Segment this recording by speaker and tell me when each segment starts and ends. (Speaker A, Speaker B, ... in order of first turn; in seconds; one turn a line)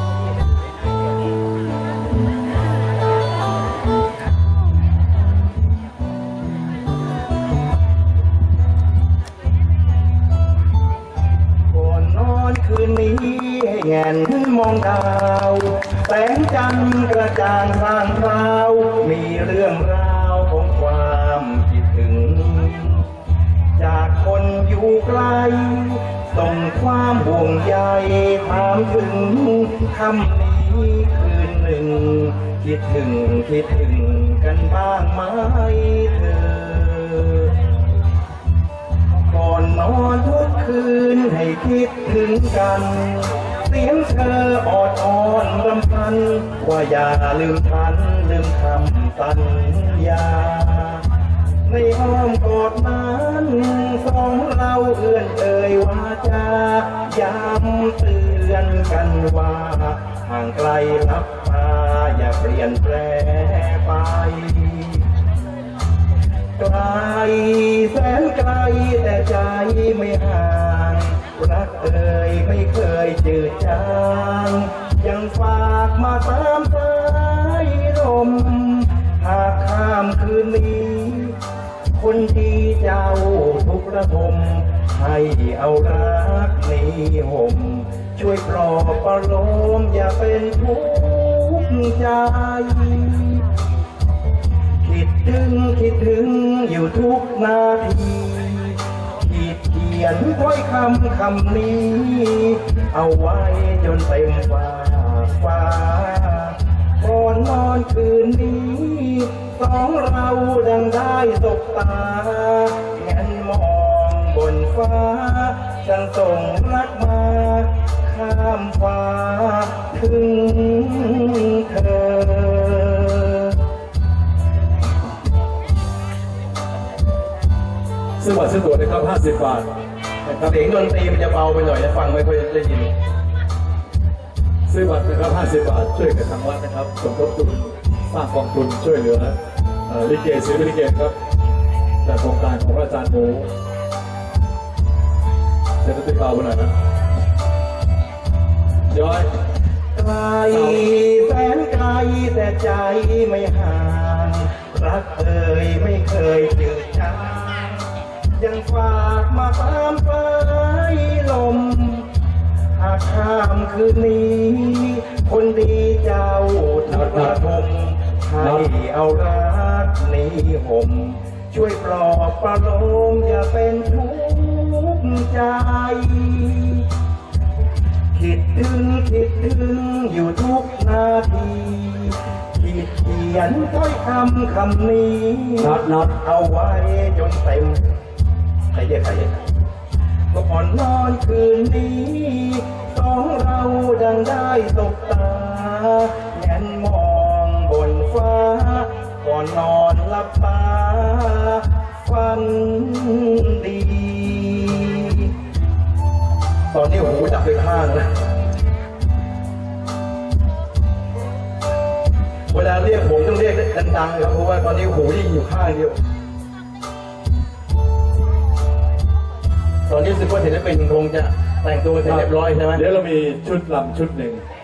Speaker A: 11.7-23.1
Speaker A: 23.8-37.5
Speaker A: 39.2-51.0
Speaker A: 51.6-65.0
Speaker A: 66.6-81.4
Speaker A: 81.9-93.5
Speaker A: 94.8-123.6
Speaker B: 128.2-129.7
Speaker A: 130.2-132.9
Speaker B: 134.7-139.3
Speaker B: 139.9-141.1
Speaker B: 142.0-143.5
Speaker B: 145.8-146.7
Speaker B: 148.9-149.3
Speaker A: 149.9-162.1
Speaker B: 150.5-150.8
Speaker A: 162.7-176.9
Speaker B: 167.1-167.3
Speaker A: 178.1-187.9
Speaker A: 188.7-189.5
Speaker A: 190.3-205.3
Speaker A: 206.7-208.1
Speaker A: 212.5-216.0
Speaker A: 219.9-222.8
Speaker B: 222.0-224.4